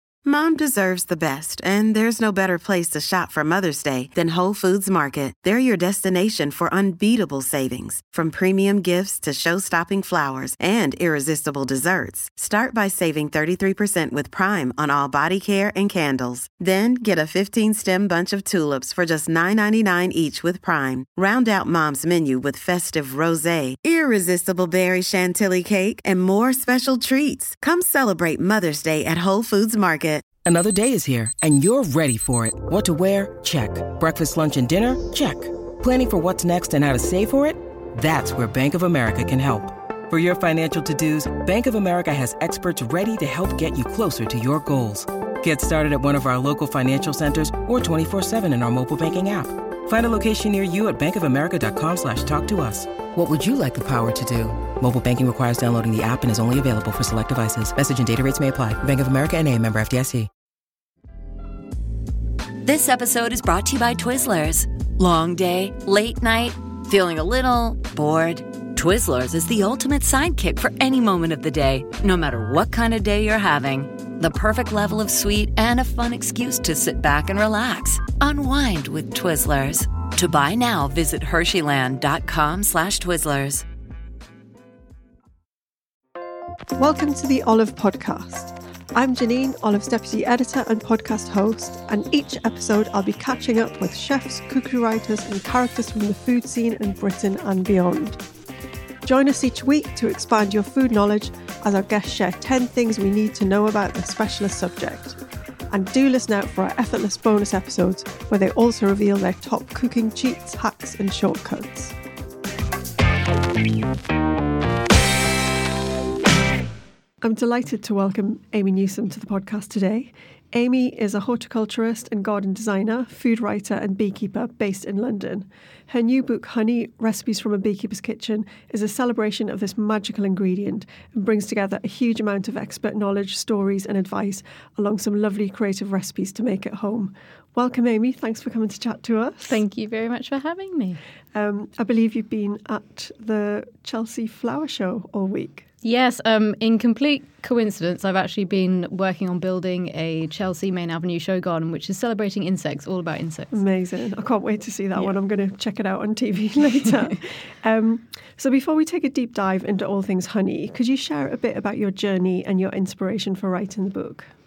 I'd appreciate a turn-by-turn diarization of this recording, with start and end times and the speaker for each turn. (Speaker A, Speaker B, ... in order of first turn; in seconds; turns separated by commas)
Speaker A: 0.2-30.2, Speaker B: 30.4-60.3, Speaker C: 62.6-83.6, Speaker D: 86.8-98.2, Speaker D: 99.0-112.0, Speaker D: 117.2-139.6, Speaker E: 139.4-141.0, Speaker D: 141.3-145.7, Speaker E: 145.8-153.6, Speaker D: 153.5-164.3